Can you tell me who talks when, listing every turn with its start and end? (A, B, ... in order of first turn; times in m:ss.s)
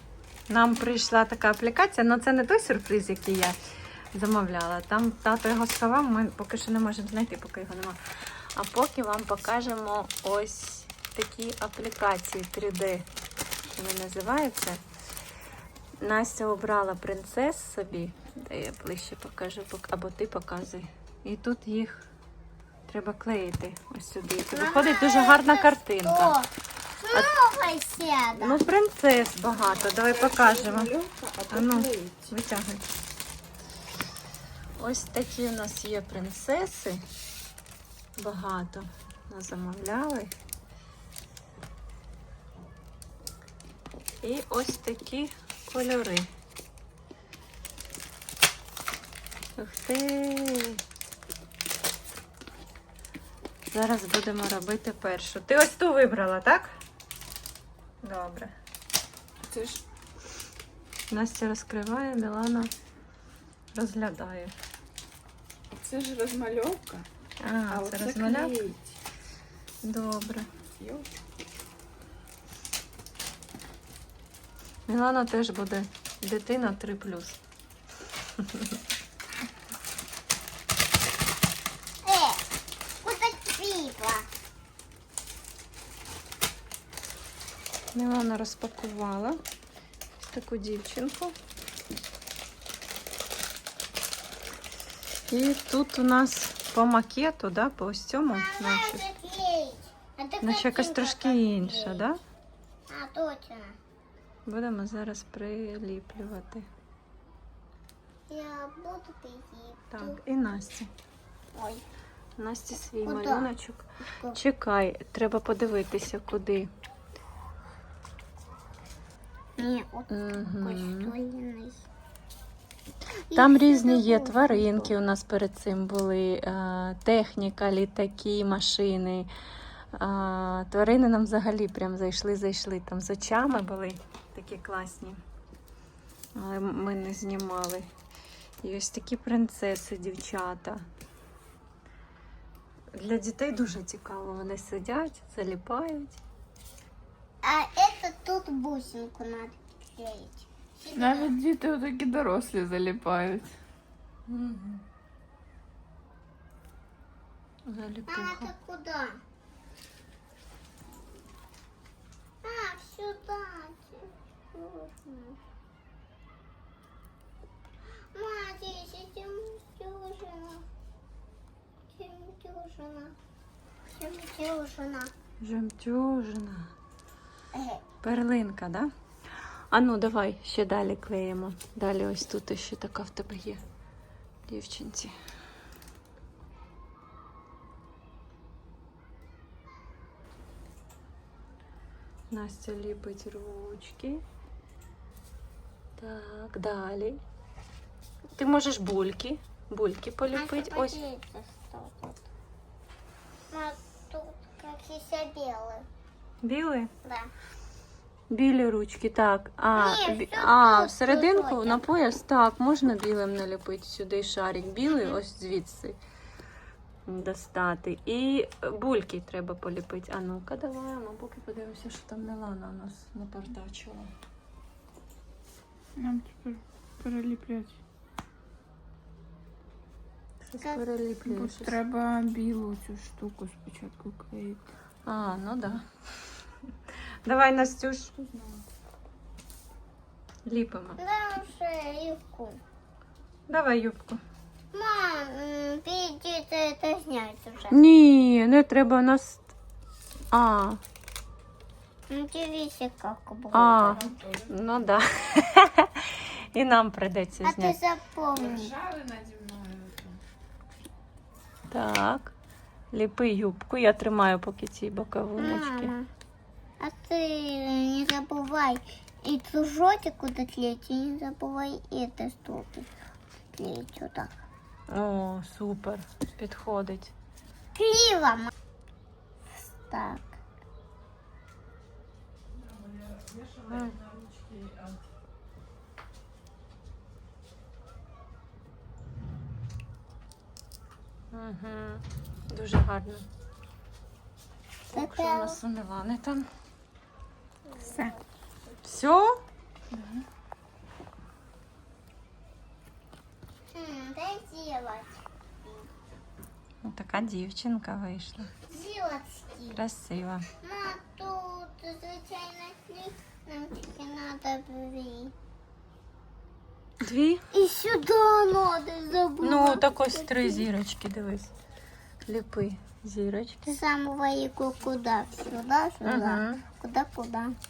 0:00.5-0:03.6 A
0:04.1-0:08.0 A
0:08.5-0:13.0 A
0:13.7-0:14.8 A
0:16.0-0:22.1 A
0:22.9-0:26.3 A
0:24.5-0:28.6 B
0:28.4-0:31.0 A
0:29.9-0:32.3 C
0:31.5-0:32.8 A
0:34.8-0:37.0 A
0:38.2-0:40.3 A
0:44.2-0:46.3 A
0:49.6-0:50.8 A
0:53.7-0:56.7 A
0:58.0-0:58.5 A
0:59.4-0:59.8 C
1:01.1-1:02.7 A
1:03.7-1:04.5 A
1:05.7-1:07.1 C
1:07.4-1:08.6 A
1:07.7-1:08.8 C
1:09.8-1:10.5 A
1:10.8-1:11.1 C
1:14.9-1:17.4 A
1:18.4-1:18.6 A
1:22.0-1:22.4 B
1:23.0-1:24.2 B
1:27.9-1:29.4 A
1:30.2-1:31.3 A
1:35.3-1:39.0 A
1:38.3-1:42.1 B
1:40.4-1:42.2 A
1:42.9-1:43.8 B
1:44.4-1:46.7 A
1:48.3-1:50.2 B
1:49.9-1:50.9 A
1:51.5-1:51.8 B
1:52.4-1:56.7 A
1:53.0-1:53.5 B
1:59.6-2:01.8 B
2:00.1-2:01.1 A
2:03.3-2:04.9 B
2:03.3-2:09.3 A
2:09.9-2:15.2 A
2:16.3-2:17.9 A
2:18.6-2:20.8 A
2:22.9-2:26.2 A
2:27.4-2:31.3 B
2:30.9-2:33.5 C
2:34.3-2:34.8 A
2:37.7-2:38.5 A
2:38.1-2:39.2 B
2:42.4-2:45.4 B
2:48.1-2:50.6 B
2:51.9-2:53.1 B
2:53.9-2:55.1 B
2:55.4-2:56.7 A
2:57.5-2:57.8 B
2:58.0-2:58.9 A
2:59.7-3:03.6 A
3:04.4-3:05.1 A
3:12.3-3:14.2 A
3:16.0-3:17.2 A
3:18.4-3:21.0 A
3:20.3-3:22.2 B
3:23.5-3:25.8 B
3:26.4-3:26.9 A
3:27.0-3:27.3 B
3:28.3-3:36.0 A
3:29.8-3:31.8 B
3:37.1-3:44.1 A
3:46.0-3:47.8 C
3:50.4-3:51.8 A
3:51.2-3:54.7 C
3:55.0-3:55.8 A
3:57.2-3:58.1 A
3:58.2-3:58.6 C
4:00.4-4:01.0 A
4:01.0-4:02.6 B
4:03.5-4:04.2 A
4:04.7-4:07.8 B
4:07.7-4:09.5 A
4:10.3-4:10.8 A
4:12.1-4:14.0 B
4:13.5-4:17.8 A
4:13.8-4:14.5 C
4:17.4-4:18.7 B
4:18.3-4:20.2 C
4:21.7-4:22.3 A
4:22.9-4:25.9 A
4:25.4-4:26.1 B
4:26.8-4:34.3 B
4:34.9-4:37.1 A
4:37.8-4:38.5 B
4:39.5-4:40.4 B
4:42.7-4:45.0 C
4:43.7-4:44.0 A
4:51.3-4:53.2 A
4:54.9-4:56.5 A
4:54.9-4:55.6 B
4:57.7-4:58.2 B
4:57.9-4:58.2 C
4:58.8-4:59.4 A
4:59.9-5:00.2 C
5:03.7-5:05.9 B
5:06.8-5:08.5 A
5:08.7-5:09.8 B
5:09.8-5:10.4 A
5:10.6-5:15.3 B
5:17.0-5:17.5 A
5:17.5-5:20.7 B
5:19.4-5:21.5 A
5:22.3-5:23.8 A
5:23.7-5:27.6 B
5:26.0-5:26.6 A